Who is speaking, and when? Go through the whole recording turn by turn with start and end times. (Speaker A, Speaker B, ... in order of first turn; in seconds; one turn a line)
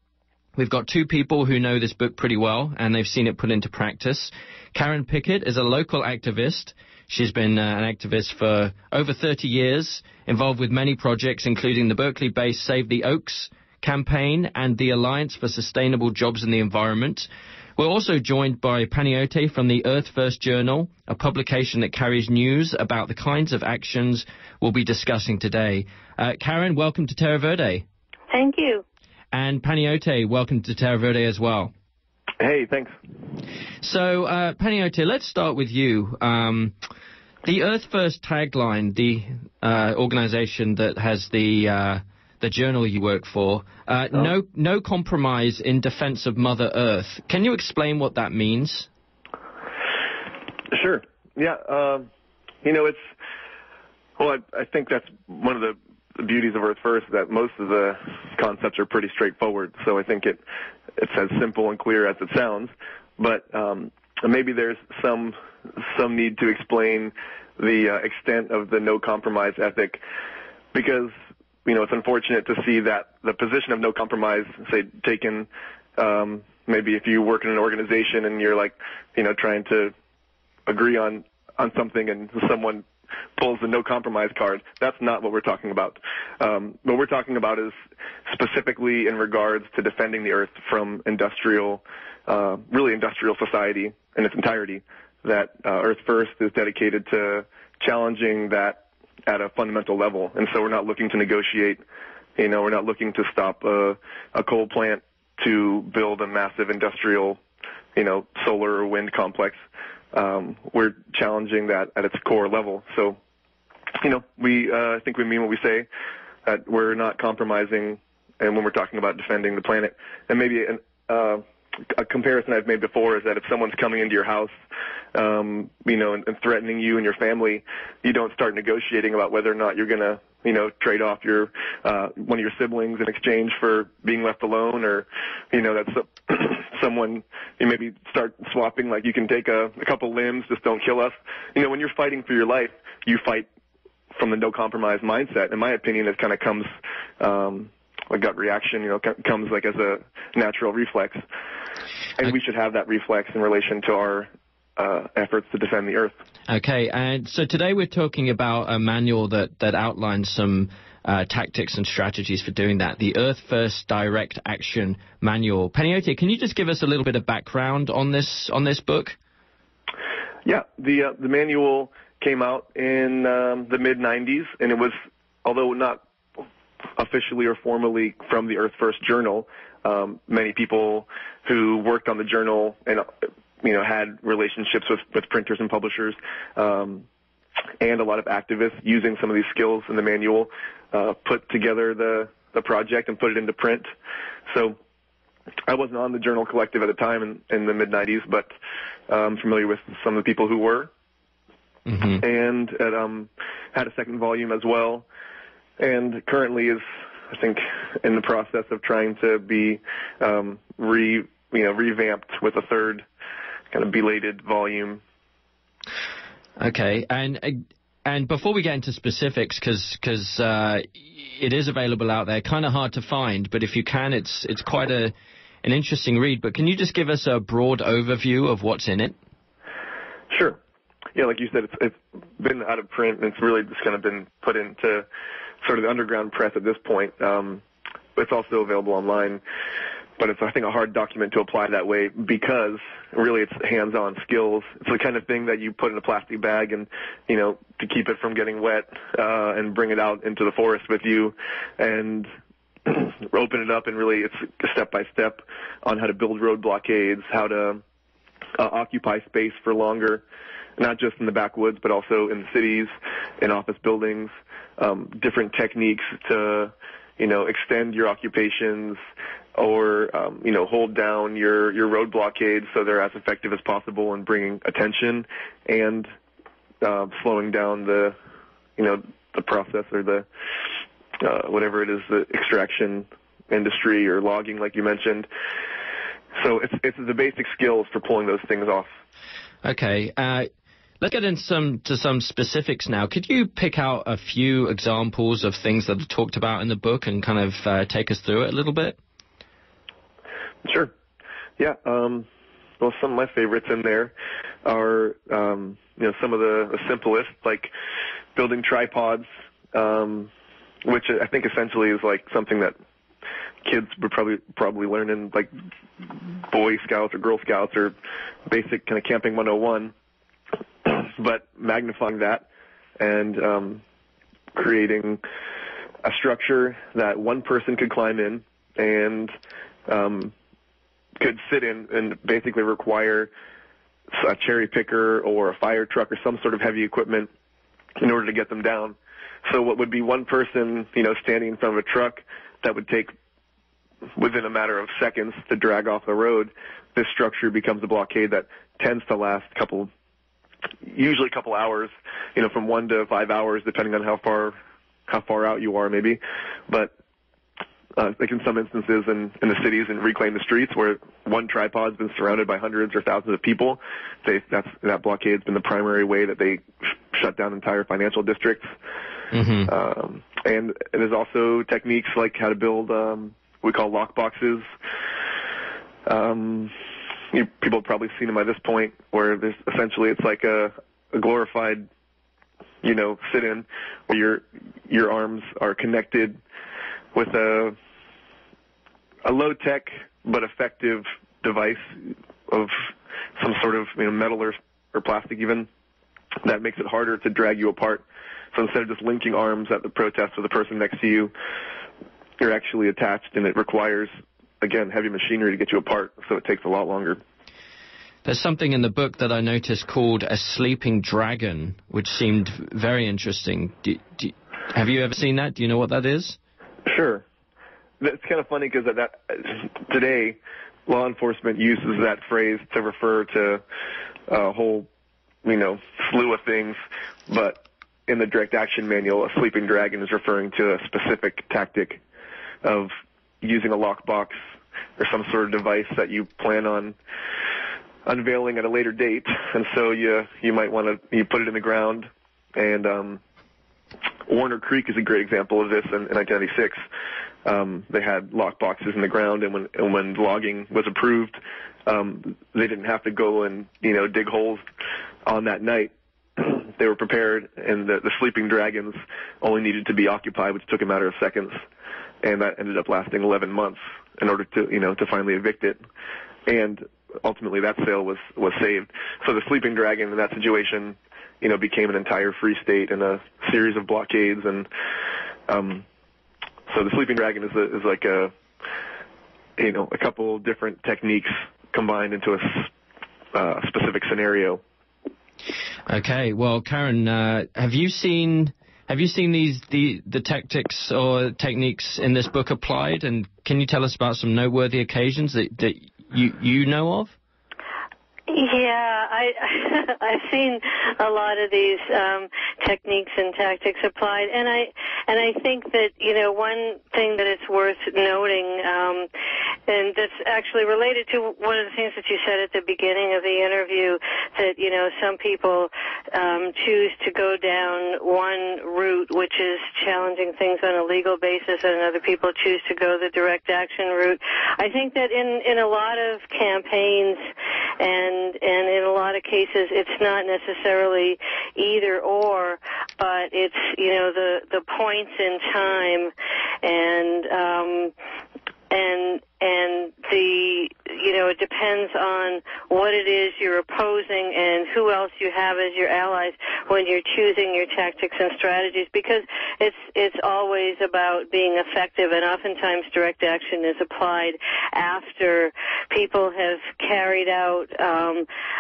Speaker A: 0.6-27.8
Speaker B: 28.3-28.8
Speaker A: 29.3-31.7
Speaker C: 32.4-33.0
Speaker A: 33.8-36.7
Speaker A: 37.4-48.9
Speaker C: 50.7-52.1
Speaker C: 52.6-53.1
Speaker C: 54.2-60.4
Speaker C: 61.0-70.0
Speaker C: 70.7-71.1
Speaker C: 71.7-79.9
Speaker C: 80.7-87.8
Speaker C: 88.3-101.8
Speaker C: 102.4-107.4
Speaker C: 108.0-109.6
Speaker C: 110.1-113.2
Speaker C: 114.0-115.9
Speaker C: 116.5-124.5
Speaker C: 125.1-143.5
Speaker C: 144.1-151.2
Speaker C: 152.2-156.2
Speaker A: 156.5-169.2
Speaker C: 170.4-176.0
Speaker C: 177.0-183.1
Speaker C: 183.6-187.1
Speaker C: 187.8-193.9
Speaker C: 194.5-194.8
Speaker C: 195.7-198.5
Speaker C: 199.1-200.9
Speaker A: 201.9-202.2
Speaker C: 202.2-205.1
Speaker C: 205.8-213.1
Speaker C: 213.7-215.0
Speaker A: 216.6-225.1
Speaker A: 225.6-229.2
Speaker C: 230.3-230.6
Speaker C: 231.2-235.1
Speaker C: 235.6-237.6
Speaker C: 238.2-239.4
Speaker C: 240.2-252.3
Speaker C: 252.8-257.8
Speaker C: 258.6-260.2
Speaker C: 260.8-269.0
Speaker C: 269.6-276.1
Speaker C: 276.8-278.2
Speaker C: 278.8-280.3
Speaker C: 281.2-285.3
Speaker C: 286.3-288.9
Speaker A: 289.6-290.5
Speaker A: 291.0-299.0
Speaker C: 300.6-300.9
Speaker C: 301.6-302.3
Speaker C: 302.8-307.7
Speaker C: 308.4-310.3
Speaker C: 310.8-312.8
Speaker C: 313.6-317.9
Speaker C: 318.5-319.9
Speaker C: 320.8-322.5
Speaker C: 323.0-323.8
Speaker C: 324.5-325.2
Speaker C: 326.0-329.3
Speaker C: 329.9-330.3
Speaker C: 331.2-333.3
Speaker C: 334.1-337.3
Speaker C: 338.0-343.1
Speaker C: 344.2-349.9
Speaker C: 350.9-354.6
Speaker C: 355.1-356.9
Speaker C: 357.9-368.7
Speaker A: 369.3-369.7
Speaker C: 369.7-374.7
Speaker C: 376.1-376.7
Speaker C: 377.3-381.9
Speaker C: 382.8-386.4
Speaker C: 387.1-387.8
Speaker C: 389.2-395.7
Speaker C: 396.4-401.3
Speaker C: 402.4-407.2
Speaker A: 408.2-416.4
Speaker C: 416.9-417.2
Speaker C: 418.0-423.6
Speaker C: 424.3-424.9
Speaker C: 425.4-432.0
Speaker C: 432.6-434.4
Speaker C: 435.0-437.0
Speaker C: 438.1-443.2
Speaker C: 444.3-446.8
Speaker C: 447.4-454.6
Speaker C: 455.2-461.6
Speaker C: 462.2-465.8
Speaker C: 466.5-474.7
Speaker C: 475.5-475.9
Speaker C: 476.7-478.3
Speaker C: 479.6-482.7
Speaker C: 483.3-484.6
Speaker A: 485.9-497.2
Speaker B: 498.3-509.1
Speaker B: 509.7-527.3
Speaker B: 527.8-536.1
Speaker B: 536.6-537.9
Speaker B: 538.7-558.3